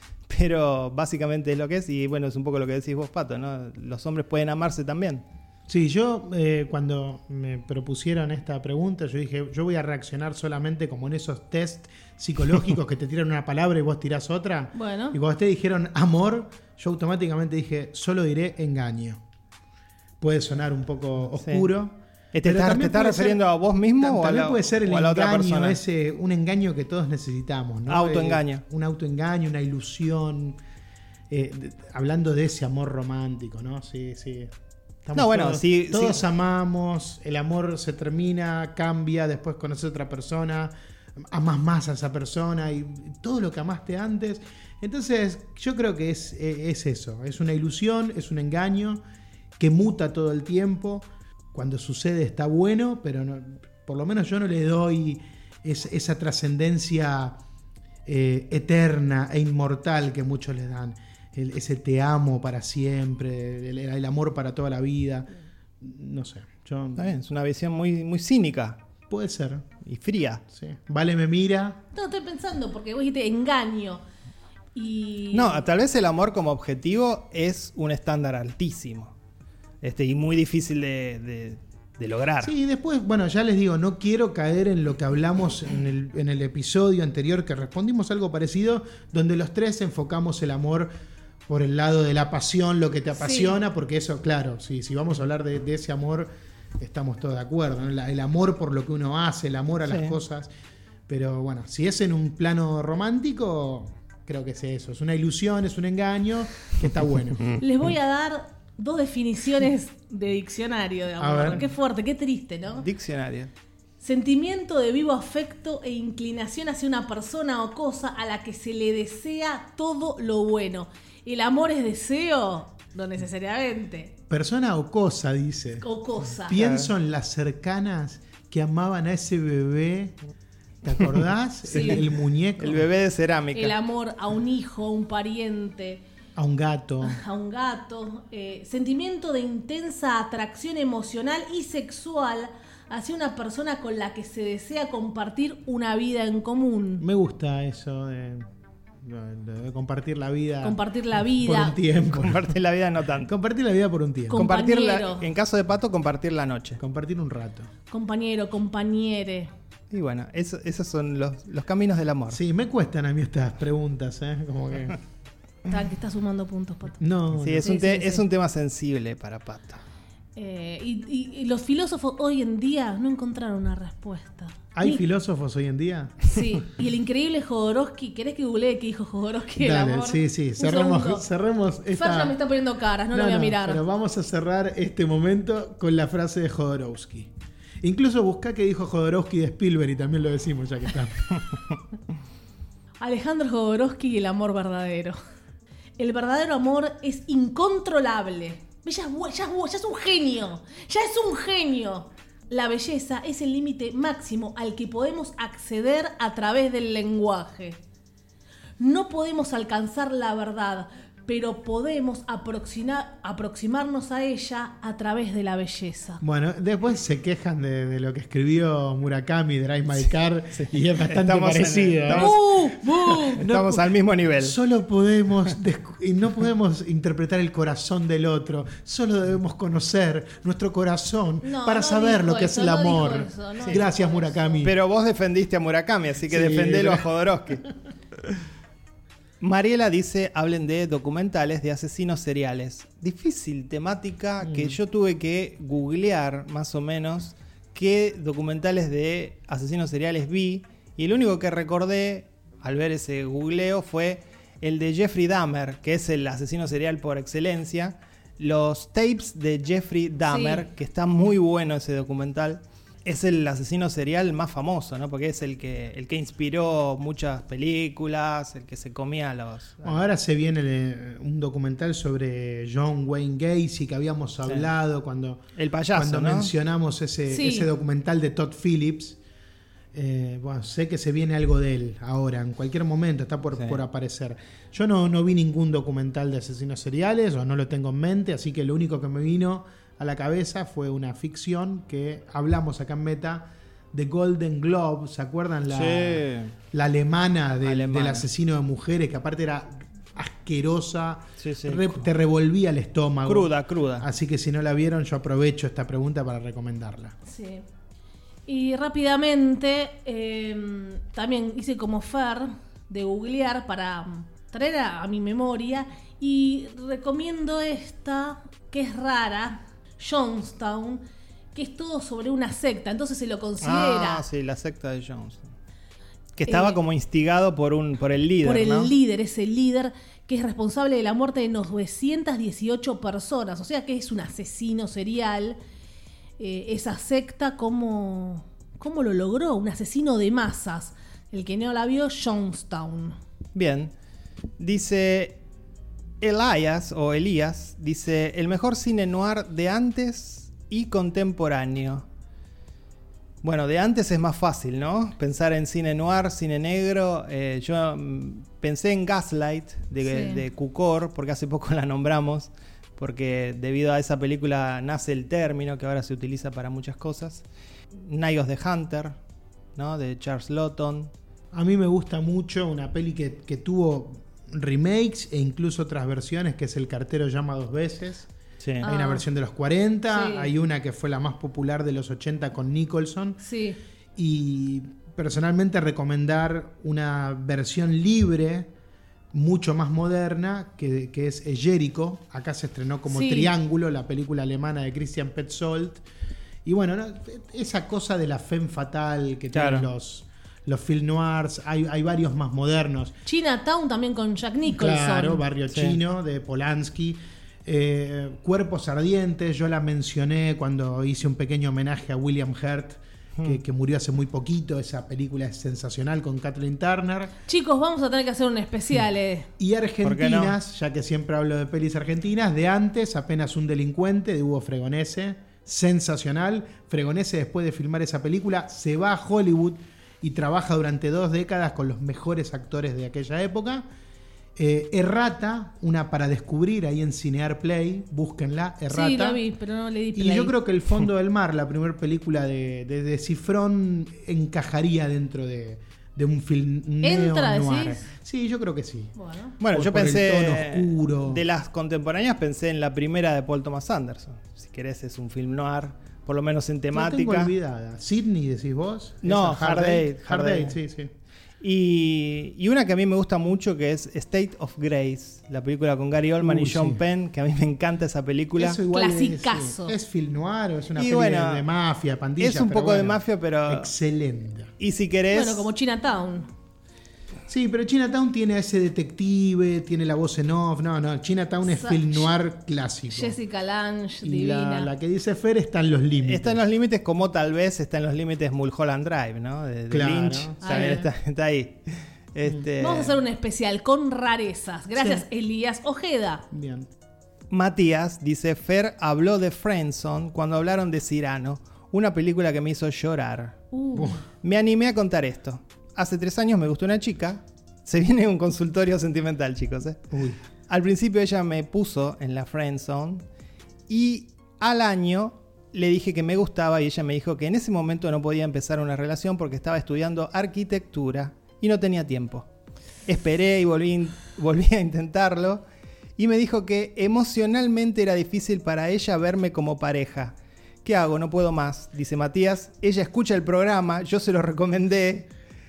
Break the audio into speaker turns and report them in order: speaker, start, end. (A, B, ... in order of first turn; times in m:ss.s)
0:00.3-0:05.2 A
0:05.7-0:19.2 B
0:14.7-0:15.2 C
0:20.2-0:23.4 B
0:21.4-0:21.7 A
0:22.3-0:25.8 A
0:24.0-0:30.6 B
0:27.9-0:28.6 A
0:31.3-0:34.5 B
0:35.0-0:49.0 B
0:35.1-0:36.2 A
0:49.6-0:57.4 B
0:58.0-1:05.3 B
1:05.8-1:07.1 B
1:07.0-1:08.8 A
1:09.1-1:09.7 B
1:09.8-1:10.4 A
1:10.5-1:11.8 B
1:11.9-1:14.0 C
1:14.7-1:15.6 C
1:15.3-1:19.1 A
1:19.8-1:22.5 A
1:22.4-1:30.9 B
1:31.5-1:40.5 B
1:33.2-1:33.5 C
1:39.8-1:40.2 A
1:41.1-1:47.5 B
1:47.6-1:52.9 C
1:51.2-1:51.6 B
1:52.8-1:53.5 A
1:54.0-2:04.2 C
2:04.3-2:10.2 B
2:05.8-2:06.6 C
2:06.5-2:06.9 A
2:10.8-2:12.9 B
2:11.7-2:12.0 C
2:11.7-2:12.0 A
2:12.6-2:13.7 A
2:13.5-2:16.0 C
2:16.4-2:17.2 B
2:17.0-2:27.0 C
2:27.0-2:28.4 B
2:29.0-2:32.5 B
2:30.6-2:31.8 C
2:32.1-2:33.3 A
2:33.2-2:34.4 B
2:34.3-2:35.3 C
2:34.3-2:36.8 A
2:36.8-2:37.7 B
2:37.9-2:39.5 C
2:39.9-2:42.4 A
2:42.3-2:45.0 B
2:45.6-2:47.0 C
2:47.0-2:47.7 B
2:47.4-2:49.8 A
2:47.6-2:48.2 C
2:50.4-2:55.0 C
2:54.7-2:56.2 B
2:56.3-3:01.2 C
2:59.6-3:02.4 B
3:01.9-3:03.8 C
3:03.1-3:07.3 B
3:07.8-3:11.3 B
3:13.0-3:15.2 C
3:16.0-3:27.8 C
3:28.8-3:36.2 C
3:36.2-3:42.4 B
3:40.5-3:42.4 A
3:42.1-3:43.4 C
3:43.1-3:44.6 A
3:43.3-3:54.8 B
3:51.4-3:54.6 C
3:54.6-3:57.6 A
3:56.3-3:57.0 B
3:59.4-4:30.0 A
4:04.4-4:04.8 B
4:20.3-4:20.6 C
4:29.8-4:35.4 B
4:35.6-4:36.5 A
4:35.9-4:39.2 B
4:37.3-4:37.7 C
4:39.9-5:07.2 B
4:55.7-4:56.5 A
4:57.6-4:58.2 A
5:01.4-5:02.1 A
5:03.2-5:04.1 A
5:07.2-5:07.6 C
5:08.5-5:24.2 C
5:23.6-5:25.5 A
5:26.4-5:28.9 A
5:26.5-5:26.8 C
5:28.4-5:35.6 C
5:36.4-5:43.2 C
5:43.5-5:43.9 A
5:44.6-5:45.4 A
5:46.2-5:52.0 A
5:53.4-6:07.4 A
6:00.0-6:00.4 C
6:08.0-6:09.2 A
6:09.8-6:11.1 A
6:11.5-6:18.3 B
6:18.6-6:18.9 A
6:18.8-6:19.2 C
6:18.8-6:23.4 B
6:20.1-6:20.5 C
6:23.4-6:23.8 C
6:24.2-6:28.7 B
6:29.3-6:36.0 B
6:33.1-6:33.5 C
6:36.6-6:43.2 B
6:39.5-6:39.9 A
6:43.2-6:45.4 C
6:44.7-6:57.3 B
6:45.7-6:46.0 A
6:57.5-6:59.5 C
6:59.6-7:13.8 B
7:00.0-7:00.6 A
7:14.6-7:19.4 B
7:18.9-7:20.5 C
7:20.1-7:31.4 B
7:27.0-7:28.0 C
7:29.2-7:29.6 C
7:29.6-7:37.5 A
7:36.9-7:41.1 B
7:39.2-7:40.8 A
7:41.6-7:48.8 A
7:46.4-7:47.0 B
7:48.6-7:54.7 B
7:48.9-7:50.0 C
7:50.9-7:51.6 A
7:52.4-7:53.9 A
7:54.8-7:55.7 A
7:55.3-7:56.5 C
7:57.5-8:03.4 B
8:01.6-8:02.3 C
8:03.1-8:04.9 C
8:04.2-8:06.6 B
8:06.2-8:13.2 A
8:09.9-8:11.1 B
8:10.6-8:11.1 C
8:12.8-8:16.4 C
8:15.0-8:15.2 B
8:16.5-8:16.9 B
8:17.5-8:23.6 A
8:23.7-8:24.2 C
8:24.4-8:30.0 A
8:30.1-8:30.4 B
8:30.7-8:33.2 A
8:33.9-8:42.5 A
8:43.0-8:45.6 A
8:46.2-8:55.3 A